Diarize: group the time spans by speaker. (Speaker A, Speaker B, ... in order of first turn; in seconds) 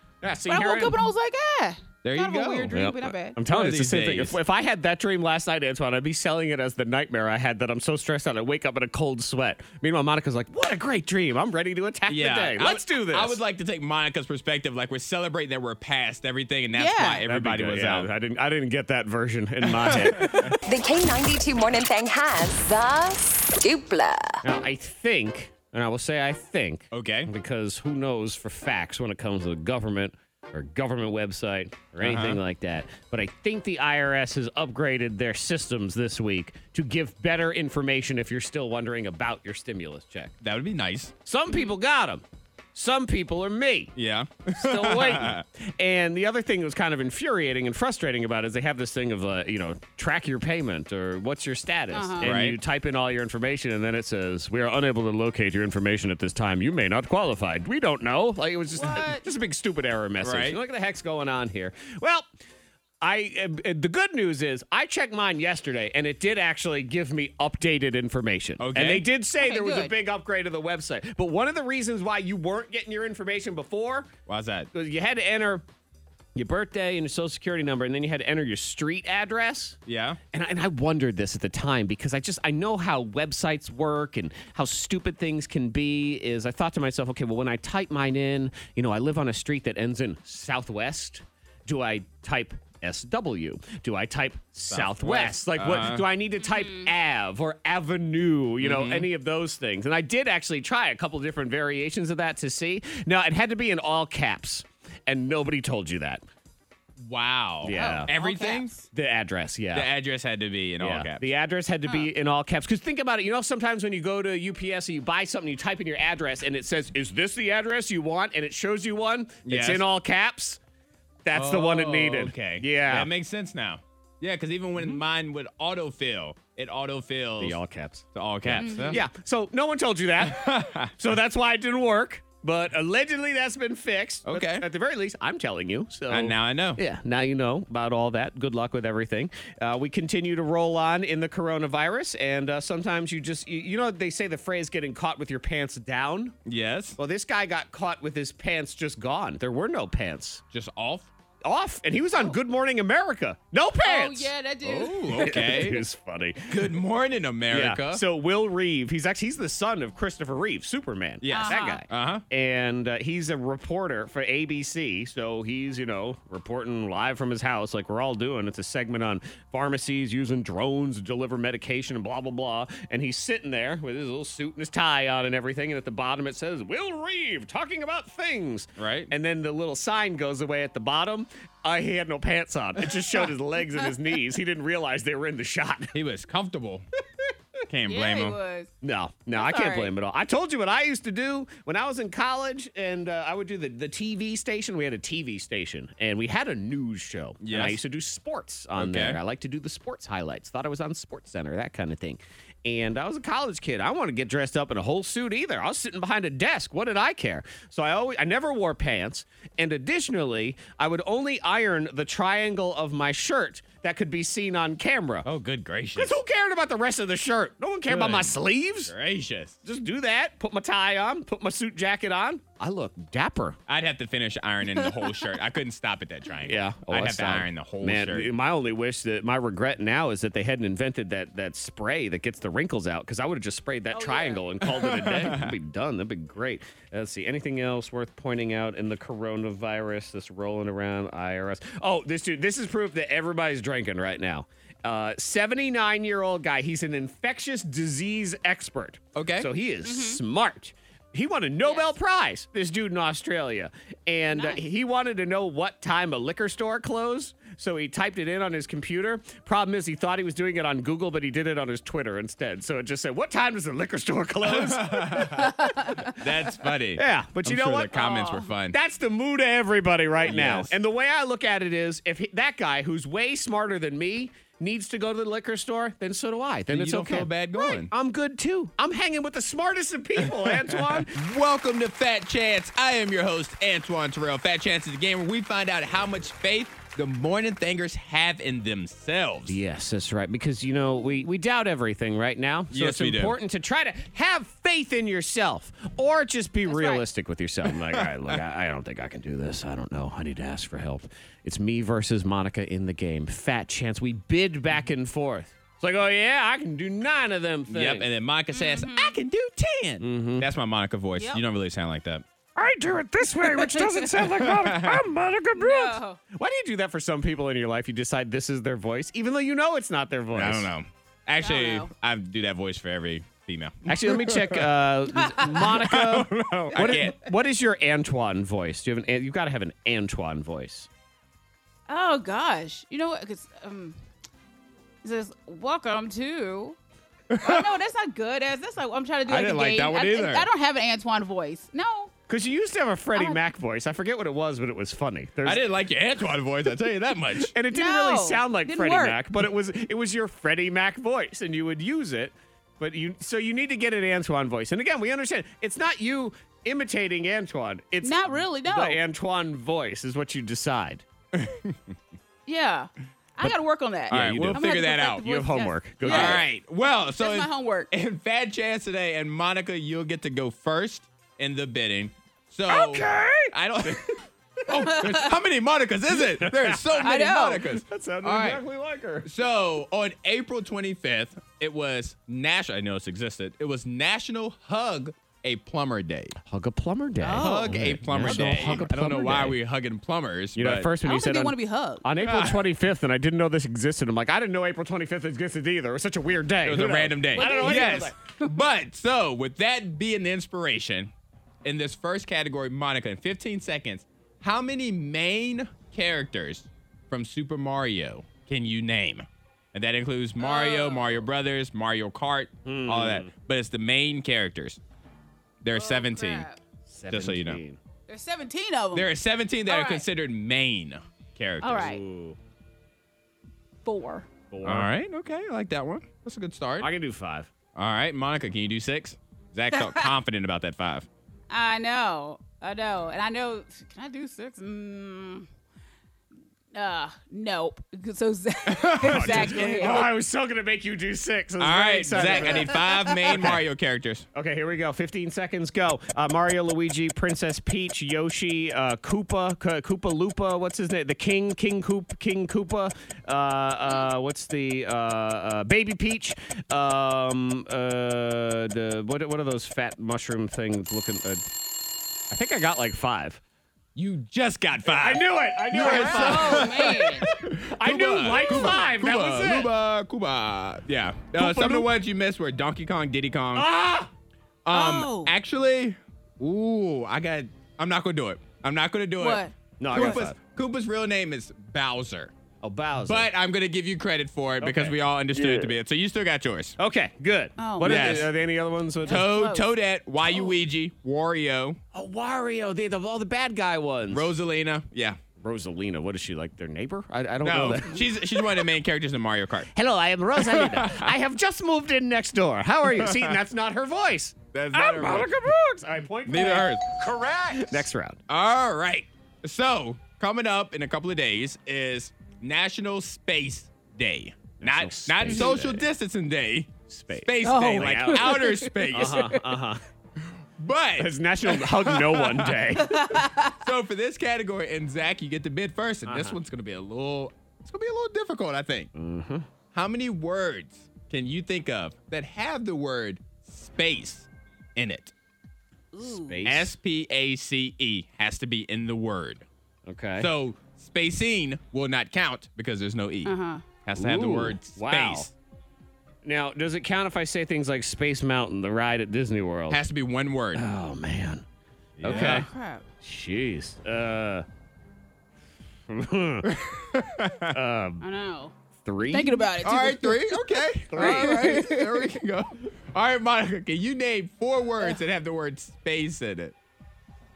Speaker A: 0.2-1.0, 2.7-13.4, 17.2-20.5, 24.4-40.3, 41.3-43.9, 44.5-62.3, 63.0-74.1, 74.7-75.7, 76.3-79.8, 80.3-106.2, 107.6-108.1, 108.9-109.9, 110.8-120.6, 121.2-123.1, 127.4-146.4, 147.0-150.4, 151.4-154.3, 155.2-156.7, 157.5-185.9, 188.8-215.3, 216.0-218.9, 219.7-223.6, 226.4-265.6, 266.9-268.0, 268.7-281.2, 289.5-308.1, 310.0-310.5, 312.6-320.7, 323.9-330.9, 342.3-345.6, 347.4-361.1, 364.1-366.4, 372.8-373.3, 376.1-379.3, 386.4-389.6, 390.6-398.1, 412.6-413.3, 416.9-417.8, 421.7-422.4, 424.5-424.9, 426.8-427.5, 439.0-443.6, 444.3-461.5, 462.3-463.4, 464.9-467.0, 467.7-469.7, 471.4-471.9, 473.5-474.1, 479.8-480.4, 482.6-483.3, 484.6-485.7, 486.8-489.3, 491.9-494.3, 495.4-498.4, 499.7-508.2, 514.6-515.9, 516.9-519.8, 521.0-523.1, 526.1-526.4, 529.0-529.5, 536.0-536.8, 539.9-540.3, 544.0-545.3, 546.2-549.8, 550.5-551.5, 552.0-552.5, 553.0-554.5, 555.9-556.5, 557.5-558.0, 558.8-559.5, 560.9-561.6
Speaker B: 0.5-3.4, 16.8-17.2, 51.9-52.3, 58.8-59.2, 69.4-69.9, 96.4-96.9, 107.7-108.8, 128.6-129.0, 153.8-155.5, 161.3-161.8, 187.9-188.7, 189.3-189.9, 233.9-234.5, 249.8-250.2, 251.6-251.9, 254.3-254.6, 265.4-266.1, 267.9-268.5, 296.7-297.0, 308.5-309.1, 313.4-314.2, 315.6-316.2, 321.4-321.9, 325.2-325.7, 331.9-334.0, 335.0-336.8, 337.4-342.1, 347.7-349.2, 358.0-359.0, 362.5-366.4, 367.1-367.9, 372.7-373.5, 374.9-375.3, 377.0-377.6, 387.2-389.0, 391.0-392.1, 397.4-398.5, 410.4-411.2, 415.7-416.6, 418.1-419.1, 419.7-420.1, 421.6-422.0, 423.9-424.3, 429.8-430.1, 431.5-435.5, 436.7-440.0, 442.2-443.5, 465.8-467.3, 474.7-475.3, 479.2-479.5, 487.6-488.3, 489.0-489.7, 517.4-519.4, 522.9-523.5, 535.9-536.4, 543.2-543.6, 552.1-552.9, 558.0-558.5, 559.1-562.0
Speaker C: 2.0-2.9, 3.5-4.4, 12.1-18.1, 19.8-20.6, 26.9-27.3, 32.0-32.4, 40.4-41.1, 44.0-45.4, 52.2-52.6, 60.2-60.6, 68.6-69.1, 74.3-74.7, 79.9-80.2, 94.7-96.0, 98.6-99.1, 107.0-108.7, 109.7-111.2, 119.5-119.8, 121.3-127.6, 128.2-129.0, 130.2-130.9, 134.3-134.7, 136.1-136.8, 146.5-147.0, 150.5-151.1, 154.6-155.8, 156.5-158.0, 161.2-162.2, 178.8-179.1, 185.9-186.8, 187.7-188.4, 197.4-197.8, 198.8-199.2, 215.2-216.2, 217.9-218.4, 218.9-219.6, 223.7-228.3, 234.8-235.5, 249.2-249.5, 264.4-268.8, 270.2-270.7, 276.7-277.9, 280.6-289.6, 292.7-293.4, 307.7-312.2, 314.3-315.1, 320.3-324.7, 325.7-327.2, 337.3-337.7, 339.3-340.5, 345.4-347.5, 361.4-361.8, 364.1-365.3, 366.0-378.6, 379.2-386.4, 387.4-390.9, 392.2-392.6, 396.6-401.1, 401.6-414.8, 415.6-416.4, 417.1-417.6, 418.9-421.9, 424.6-426.9, 427.8-431.1, 438.7-440.1, 441.6-444.3, 463.9-473.8, 474.7-482.3, 483.1-486.8, 487.8-488.3, 489.1-491.8, 494.1-495.2, 497.4-499.7, 500.4-501.1, 503.0-503.4, 504.5-505.4, 506.3-519.3, 520.6-522.6, 523.6-528.9, 529.7-535.1, 536.4-539.5, 540.2-545.3, 549.7-550.6, 552.0-552.5, 556.5-557.5, 559.6-566.5
Speaker D: 20.7-24.4